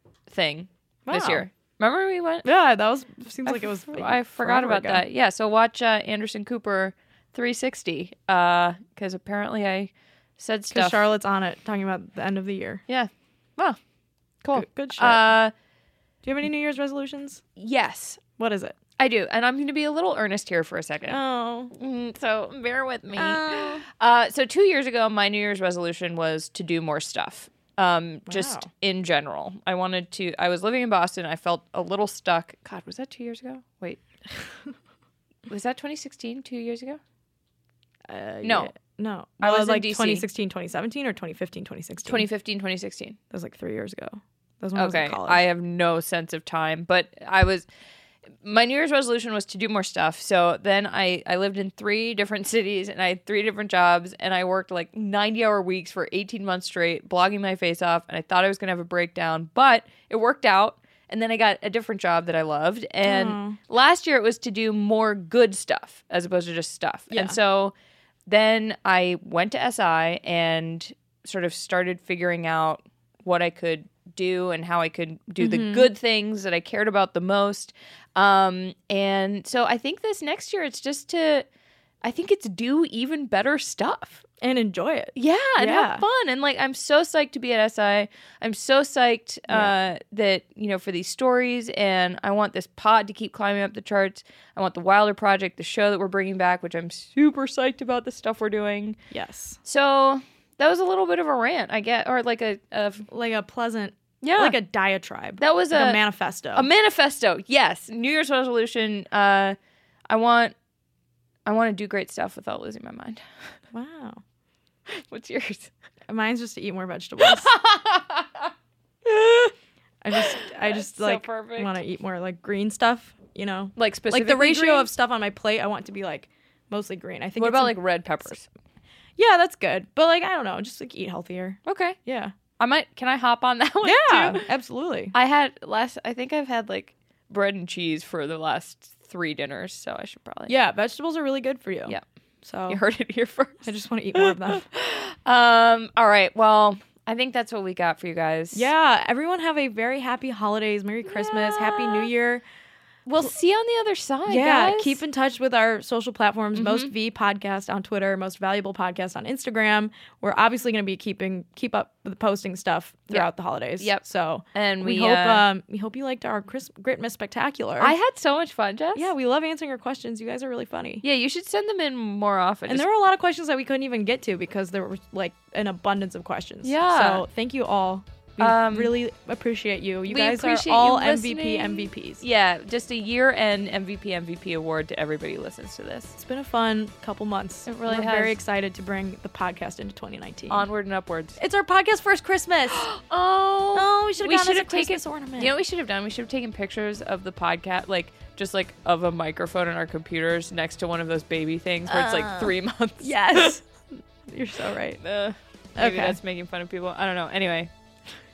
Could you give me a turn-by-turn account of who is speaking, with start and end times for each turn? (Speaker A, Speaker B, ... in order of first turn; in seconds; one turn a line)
Speaker A: 0.3-2.5
Speaker B: 1.1-1.4
Speaker B: 2.4-5.0
Speaker A: 3.5-11.1
Speaker B: 10.7-12.8
Speaker A: 12.9-13.8
Speaker A: 14.4-15.5
Speaker B: 14.5-15.2
Speaker B: 16.2-17.4
Speaker A: 17.6-18.2
Speaker B: 18.4-18.8
Speaker A: 19.0-21.2
Speaker B: 21.1-21.7
Speaker A: 21.7-34.0
Speaker B: 23.1-23.8
Speaker B: 28.3-28.7
Speaker A: 35.5-37.0
Speaker B: 38.0-42.3
Speaker A: 38.4-38.7
Speaker A: 39.4-40.2
Speaker A: 42.0-43.2
Speaker B: 43.3-45.4
Speaker A: 44.7-47.7
Speaker A: 48.4-67.7
Speaker B: 63.0-63.6
Speaker B: 67.1-67.4
Speaker A: 68.3-81.5
Speaker B: 75.4-75.9
Speaker A: 82.0-84.2
Speaker B: 84.4-86.0
Speaker A: 85.2-99.0
Speaker B: 89.5-89.7
Speaker B: 99.1-99.6
Speaker A: 99.6-103.1
Speaker B: 103.1-106.7
Speaker A: 104.2-104.6
Speaker A: 105.4-106.0
Speaker A: 106.5-109.6
Speaker A: 110.1-110.5
Speaker A: 111.5-113.2
Speaker B: 113.7-114.2
Speaker A: 114.9-115.7
Speaker B: 116.1-117.5
Speaker A: 117.2-118.5
Speaker A: 119.0-119.5
Speaker B: 120.0-128.3
Speaker A: 120.2-121.8
Speaker A: 123.8-124.9
Speaker A: 127.4-128.5
Speaker B: 129.2-132.3
Speaker A: 131.6-132.0
Speaker A: 132.6-134.4
Speaker B: 133.8-135.1
Speaker A: 135.1-140.5
Speaker B: 140.5-142.8
Speaker A: 142.7-148.7
Speaker B: 143.6-144.6
Speaker B: 148.5-152.4
Speaker A: 151.1-152.1
Speaker A: 153.1-155.0
Speaker B: 154.2-167.9
Speaker A: 156.5-156.9
Speaker A: 163.1-165.4
Speaker A: 167.8-169.1
Speaker B: 168.9-171.0
Speaker A: 171.0-172.8
Speaker B: 172.7-182.2
Speaker A: 176.6-177.2
Speaker A: 178.4-178.9
Speaker A: 180.1-186.2
Speaker B: 186.2-190.7
Speaker A: 187.7-188.4
Speaker A: 190.5-191.4
Speaker B: 191.4-192.9
Speaker A: 192.7-203.6
Speaker B: 193.7-195.5
Speaker B: 201.9-205.0
Speaker A: 205.0-207.7
Speaker B: 205.8-206.2